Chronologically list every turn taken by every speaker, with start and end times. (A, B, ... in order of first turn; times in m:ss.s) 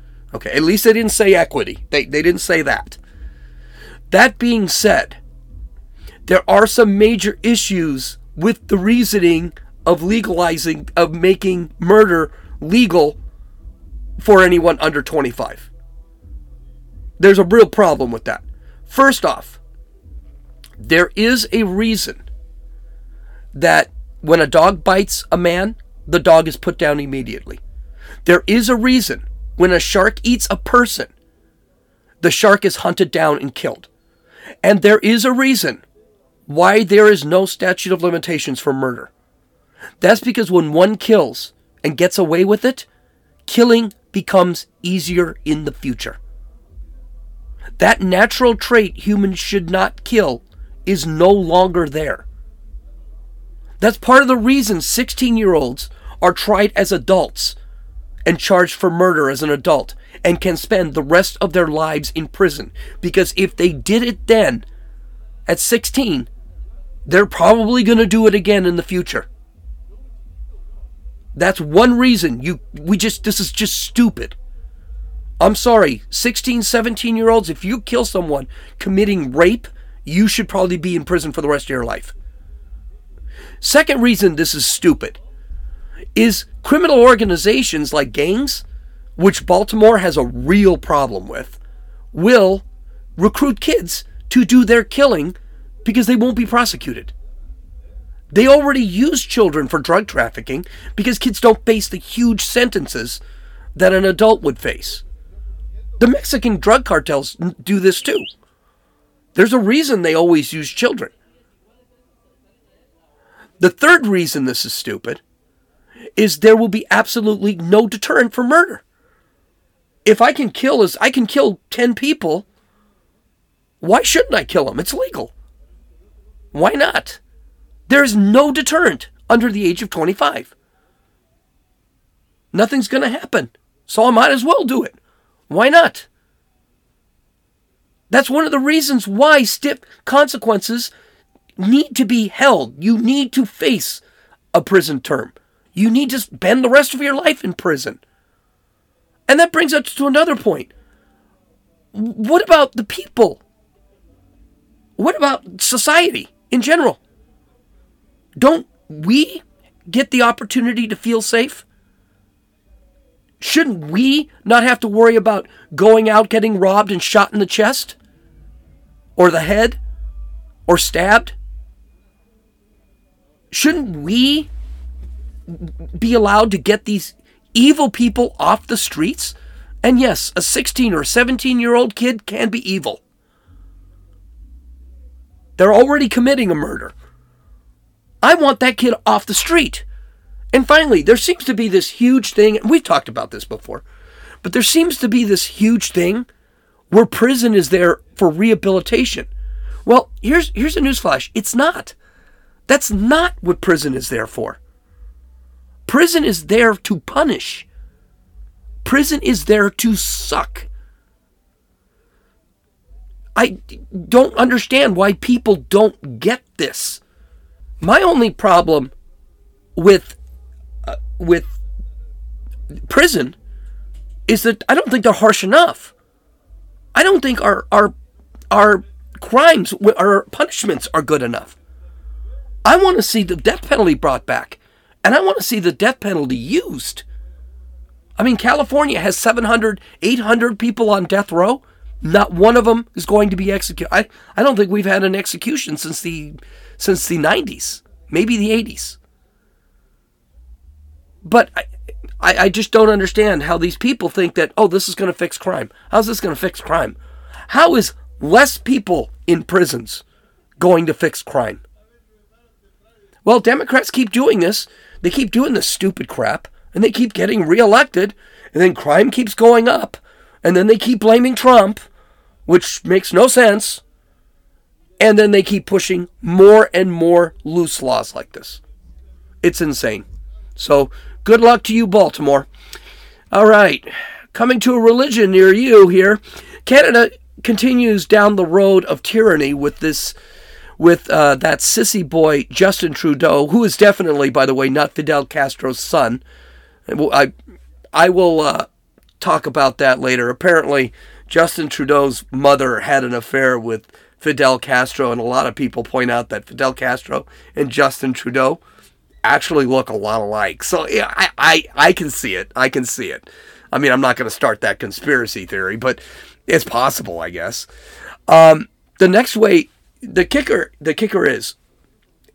0:00.3-0:03.0 A
0:04.1-0:05.2 A
0:06.2-0:13.2 A
0:14.2-0:15.7 A
0:17.2-0:19.6 A
0:20.8-0:22.2 A
0:23.5-0:27.6 A
0:28.2-0:31.1 A
0:32.2-0:33.9 A
0:34.6-0:35.8 A
0:36.5-0:39.1 A
0:40.0-0:42.8 A
0:43.4-0:46.2 A
0:47.8-0:52.2 A
0:53.8-0:57.6 A
0:58.2-1:04.6 A
1:05.5-1:06.3 A
1:07.0-1:09.3 A
1:11.3-1:14.4 A
1:15.4-1:22.1 A
1:23.6-1:25.2 A
1:26.1-1:28.6 A
1:29.2-1:31.6 A
1:32.1-1:32.6 A
1:33.2-1:37.1 A
1:38.3-1:43.2 A
1:43.8-1:45.0 A
1:46.0-1:48.3 A
1:49.3-1:51.1 A
1:53.6-1:55.2 A
1:56.2-1:58.8 A
2:00.0-2:02.4 A
2:03.8-2:05.3 A
2:06.5-2:07.2 A
2:07.9-2:10.5 A
2:12.5-2:14.9 A
2:15.5-2:16.0 A
2:18.1-2:20.9 A
2:21.6-2:24.0 A
2:24.5-2:28.0 A
2:29.3-2:30.7 A
2:31.9-2:33.4 A
2:35.0-2:37.0 A
2:38.4-2:41.6 A
2:43.4-2:48.0 A
2:49.2-2:49.8 A
2:50.7-2:51.3 A
2:53.5-2:54.5 A
2:55.5-3:03.0 A
3:05.6-3:06.9 A
3:08.2-3:09.8 A
3:10.5-3:13.8 A
3:14.4-3:16.3 A
3:16.9-3:19.3 A
3:19.8-3:21.9 A
3:22.7-3:24.6 A
3:25.8-3:27.6 A
3:28.8-3:30.7 A
3:33.4-3:37.0 A
3:37.8-3:38.9 A
3:39.8-3:40.2 A
3:40.8-3:41.5 A
3:42.9-3:43.3 A
3:44.3-3:45.9 A
3:46.9-3:47.9 A
3:48.5-3:51.6 A
3:52.6-3:57.0 A
3:58.2-4:09.0 A
4:11.2-4:11.7 A
4:12.2-4:17.0 A
4:17.5-4:20.0 A
4:20.6-4:21.6 A
4:23.2-4:31.8 A
4:32.4-4:33.8 A
4:35.0-4:38.6 A
4:39.4-4:40.0 A
4:40.6-4:42.5 A
4:43.3-4:50.2 A
4:50.8-4:56.2 A
4:56.9-4:57.3 A
4:57.9-4:58.7 A
4:59.2-5:08.6 A
5:09.2-5:17.7 A
5:18.3-5:21.6 A